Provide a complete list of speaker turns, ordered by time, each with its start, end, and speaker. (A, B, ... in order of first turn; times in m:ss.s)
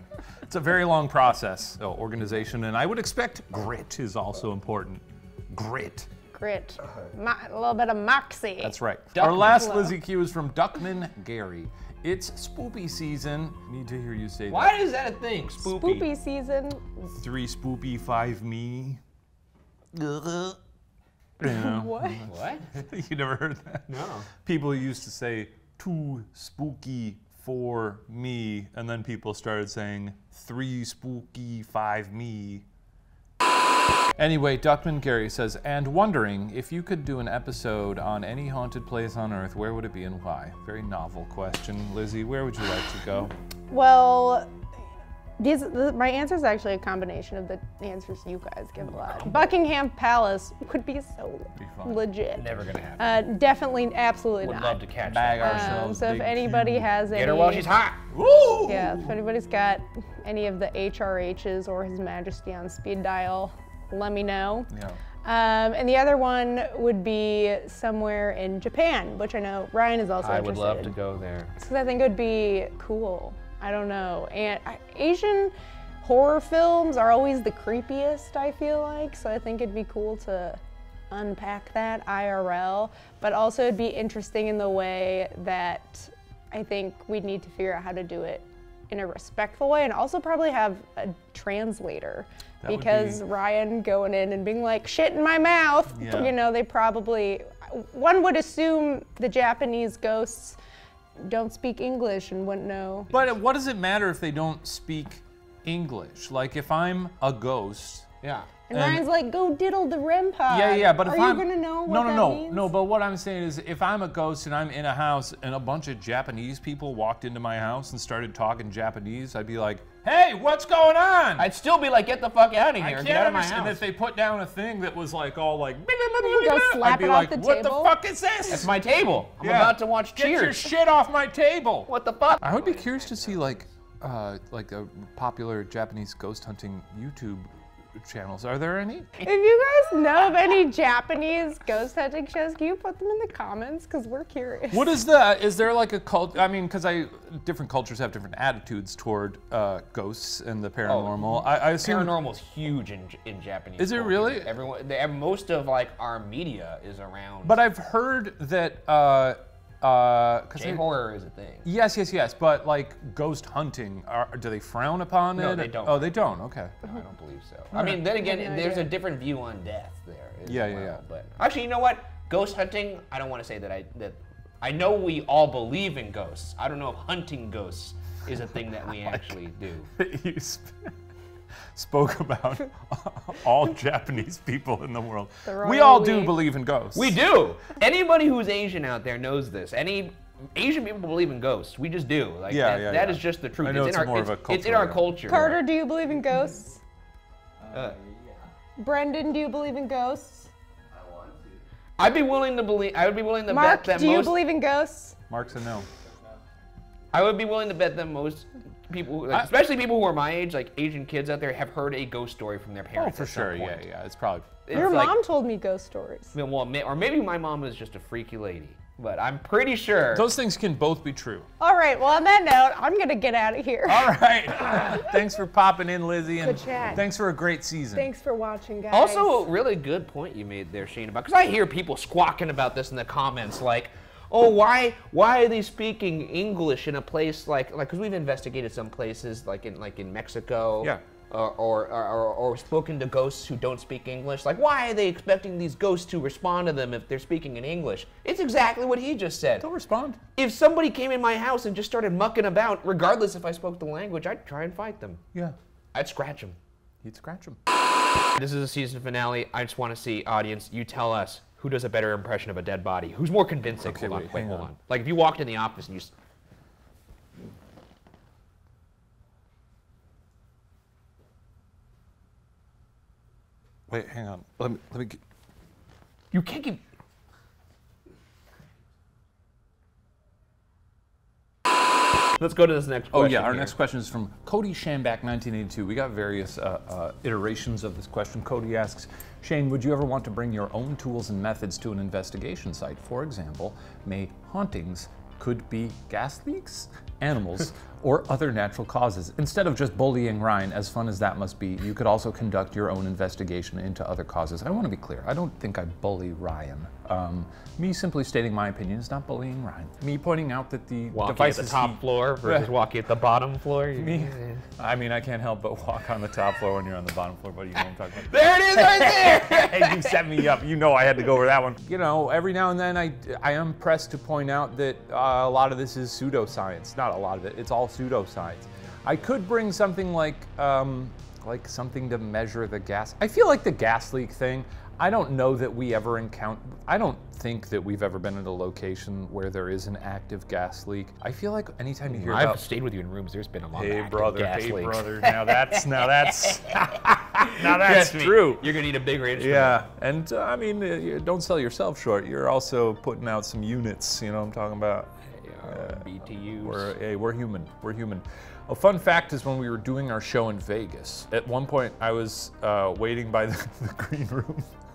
0:00.4-0:06.1 A
0:06.3-0:08.7 B
0:08.6-0:14.7 A
0:09.1-0:09.9 C
0:14.5-0:16.1 C
0:15.6-0:17.1 B
0:17.2-0:19.0 A
0:19.9-0:20.6 A
0:21.4-0:32.6 A
0:21.4-0:22.3 B
0:22.2-0:22.9 C
0:23.9-0:24.3 C
0:34.2-0:43.3 A
0:43.7-0:44.5 B
0:45.4-0:52.4 B
0:49.0-0:49.5 C
0:51.6-0:52.0 A
0:52.3-0:53.0 C
0:53.0-0:54.8 B
0:54.4-0:56.0 C
0:55.0-0:56.9 A
0:55.4-0:57.7 B
0:57.1-0:58.0 C
0:58.1-0:59.1 A
0:58.6-1:04.7 B
1:04.7-1:05.0 A
1:05.2-1:10.9 B
1:10.2-1:11.5 C
1:11.6-1:20.6 B
1:21.1-1:40.6 B
1:32.6-1:33.2 A
1:35.9-1:36.3 A
1:41.2-1:43.1 B
1:43.1-1:48.1 A
1:48.2-1:48.5 C
1:48.7-1:52.7 B
1:48.7-1:49.0 A
1:50.5-2:01.5 A
2:01.4-2:03.8 C
2:02.8-2:08.7 A
2:06.2-2:07.9 B
2:08.5-2:10.7 C
2:09.4-2:19.1 A
2:11.9-2:13.8 C
2:19.2-2:24.9 B
2:24.7-2:32.2 A
2:30.8-2:37.6 C
2:33.8-2:34.5 A
2:37.4-2:40.8 A
2:40.5-2:41.6 C
2:41.6-2:46.8 A
2:45.3-2:46.1 C
2:46.8-2:59.9 C
2:47.7-2:48.0 A
2:48.0-2:48.9 B
2:50.4-2:51.0 A
2:59.0-2:59.3 A
3:00.0-3:00.9 A
3:01.7-3:07.2 A
3:05.4-3:06.4 B
3:06.9-3:15.6 C
3:12.5-3:15.4 A
3:15.3-3:16.8 B
3:17.7-3:18.0 C
3:18.8-3:20.5 B
3:22.0-3:24.4 C
3:23.5-3:25.2 B
3:25.3-3:25.9 A
3:27.1-3:33.8 C
3:32.9-3:35.0 A
3:34.6-3:35.2 C
3:34.7-3:36.3 B
3:36.3-3:40.3 C
3:40.1-3:41.5 A
3:41.6-3:44.1 B
3:43.8-3:48.1 A
3:46.4-3:47.0 B
3:47.9-3:49.4 B
3:48.9-4:09.6 C
4:09.6-4:10.2 A
4:10.4-4:15.2 C
4:15.9-4:16.6 C
4:17.0-4:17.6 A
4:18.4-4:26.1 C
4:23.8-4:24.7 A
4:33.9-4:35.2 A
4:36.3-4:36.8 C
4:42.4-4:43.7 C
4:43.1-5:12.7 A
5:11.1-5:14.6 C
5:13.9-5:42.6 A
5:18.2-5:20.2 C
5:42.1-5:49.8 C
5:43.7-5:48.7 A
5:49.3-5:55.1 A
5:55.3-5:56.9 C
5:55.6-5:56.0 A
5:56.6-6:04.7 A